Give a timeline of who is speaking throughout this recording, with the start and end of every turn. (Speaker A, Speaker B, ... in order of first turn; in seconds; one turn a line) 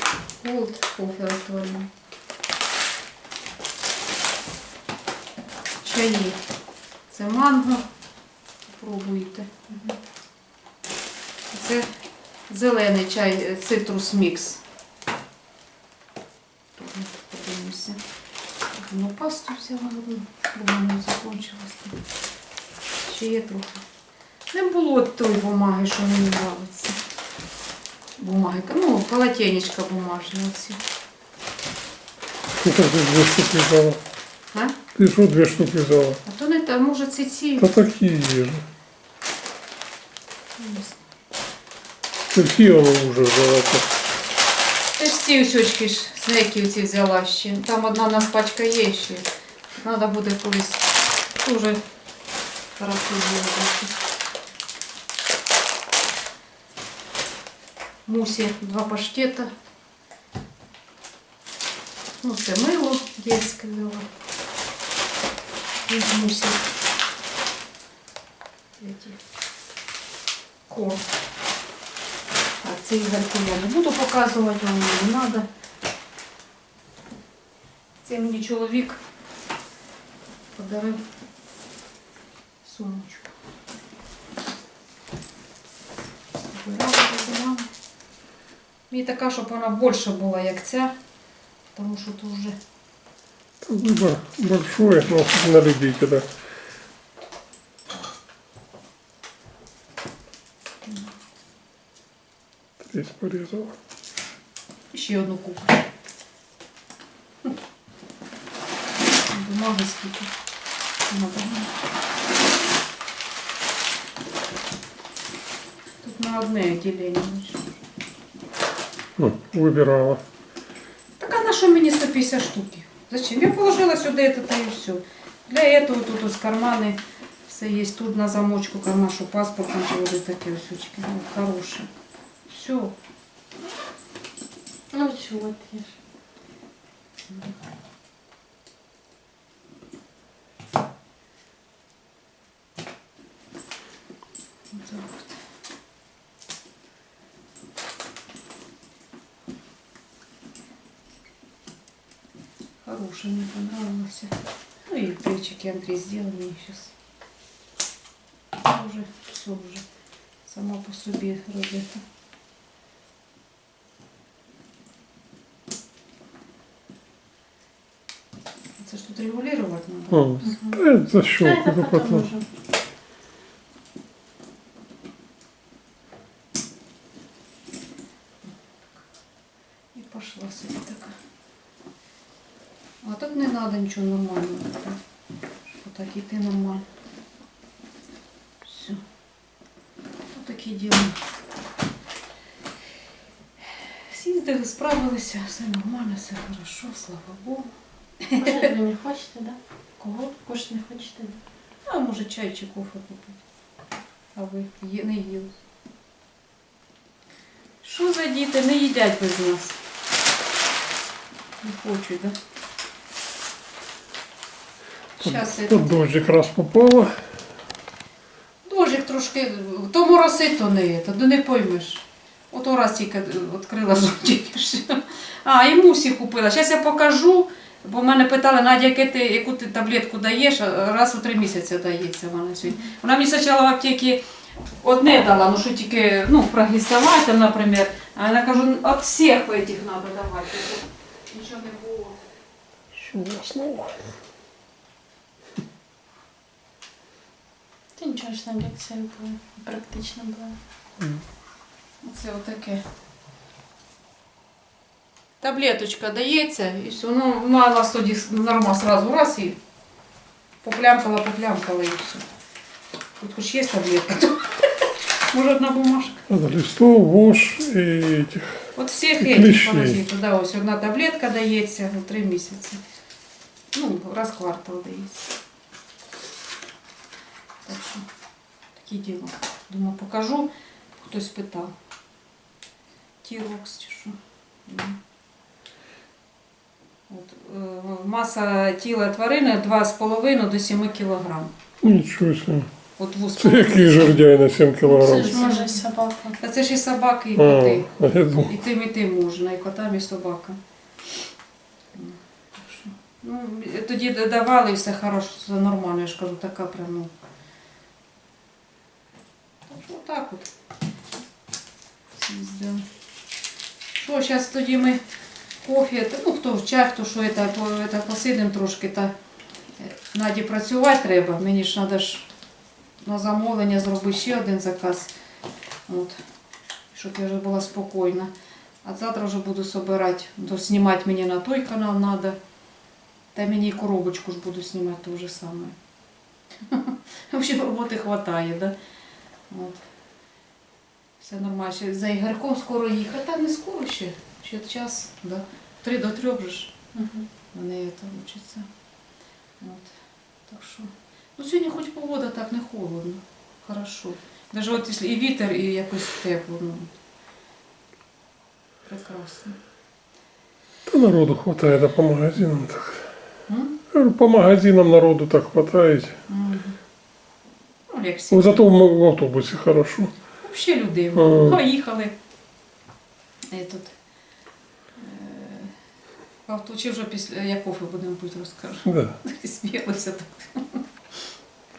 Speaker A: 0.4-1.9
Speaker A: 5.8-6.4
Speaker A: 7.1-7.9
Speaker A: 8.7-9.5
Speaker A: 11.5-11.9
Speaker A: 12.5-14.6
Speaker A: 16.8-18.0
Speaker A: 18.7-22.0
Speaker A: 23.1-23.8
Speaker A: 24.5-27.0
Speaker A: 28.2-30.8
Speaker B: 32.6-34.0
Speaker B: 35.0-36.2
Speaker A: 36.2-37.7
Speaker B: 37.6-38.7
Speaker A: 40.6-41.0
Speaker B: 42.3-43.9
Speaker A: 45.0-49.3
Speaker A: 49.8-51.8
Speaker A: 52.8-54.0
Speaker A: 58.1-59.5
Speaker A: 62.2-64.1
Speaker A: 65.9-66.7
Speaker A: 68.8-69.2
Speaker A: 70.7-71.0
Speaker A: 72.6-75.5
Speaker A: 78.0-79.0
Speaker A: 80.6-81.0
Speaker A: 82.6-83.3
Speaker A: 86.5-87.7
Speaker A: 88.9-90.9
Speaker A: 91.7-92.6
Speaker B: 93.6-96.3
Speaker A: 100.8-101.1
Speaker B: 102.8-103.7
Speaker A: 104.9-105.8
Speaker A: 109.3-110.3
Speaker A: 111.1-111.7
Speaker A: 116.0-117.7
Speaker B: 119.2-120.2
Speaker A: 121.2-131.9
Speaker A: 132.5-132.9
Speaker C: 134.9-135.9
Speaker A: 137.3-137.6
Speaker A: 144.7-145.4
Speaker A: 152.8-154.3
Speaker A: 154.9-156.9
Speaker A: 158.6-159.8
Speaker A: 160.5-162.0
Speaker A: 168.8-170.6
Speaker B: 170.1-172.3
Speaker C: 170.4-172.4
Speaker A: 178.5-179.0
Speaker A: 179.9-181.2
Speaker A: 183.0-185.0
Speaker A: 185.8-186.9
Speaker A: 188.6-189.0
Speaker A: 190.3-191.2
Speaker A: 193.6-197.7
Speaker A: 198.2-198.7
Speaker C: 198.4-199.6
Speaker A: 200.0-200.3
Speaker C: 200.3-201.4
Speaker A: 201.8-203.4
Speaker A: 204.4-205.5
Speaker A: 207.8-209.8
Speaker A: 211.6-212.4
Speaker A: 215.2-216.2
Speaker B: 215.2-217.2
Speaker A: 218.7-234.2
Speaker A: 234.8-242.2
Speaker B: 242.9-244.0
Speaker C: 248.0-250.6
Speaker B: 251.0-251.2
Speaker A: 252.0-252.8
Speaker A: 255.4-259.6
Speaker A: 260.6-262.2
Speaker A: 263.2-264.7
Speaker A: 265.3-266.2
Speaker B: 266.3-268.7
Speaker A: 268.8-272.8
Speaker B: 269.2-270.0
Speaker A: 273.7-275.3
Speaker A: 277.7-278.1
Speaker A: 278.8-281.7
Speaker A: 283.2-285.0
Speaker A: 287.1-291.5
Speaker B: 291.8-292.7
Speaker A: 293.0-294.3
Speaker B: 293.4-295.4
Speaker C: 294.9-296.4
Speaker A: 294.9-295.8
Speaker A: 296.4-300.6
Speaker B: 297.4-298.5
Speaker A: 301.9-307.1
Speaker A: 309.7-310.5
Speaker A: 312.2-312.9
Speaker A: 313.9-315.0
Speaker A: 315.6-319.1
Speaker A: 319.8-322.3
Speaker A: 323.0-325.1
Speaker A: 325.9-326.2
Speaker A: 326.9-328.3
Speaker A: 328.8-332.4
Speaker A: 333.3-335.8
Speaker A: 336.7-338.7
Speaker A: 339.5-339.8
Speaker A: 341.2-346.8
Speaker C: 346.9-347.3
Speaker A: 347.5-348.7
Speaker A: 349.6-349.9
Speaker A: 350.5-356.9
Speaker A: 358.9-359.6
Speaker B: 360.9-363.1
Speaker A: 363.5-363.8
Speaker B: 363.9-366.2
Speaker A: 366.3-366.8
Speaker A: 367.9-368.7
Speaker B: 368.3-370.1
Speaker A: 370.4-372.1
Speaker B: 371.2-371.6
Speaker A: 373.5-373.9
Speaker A: 375.0-375.7
Speaker A: 376.5-380.8
Speaker B: 378.9-379.2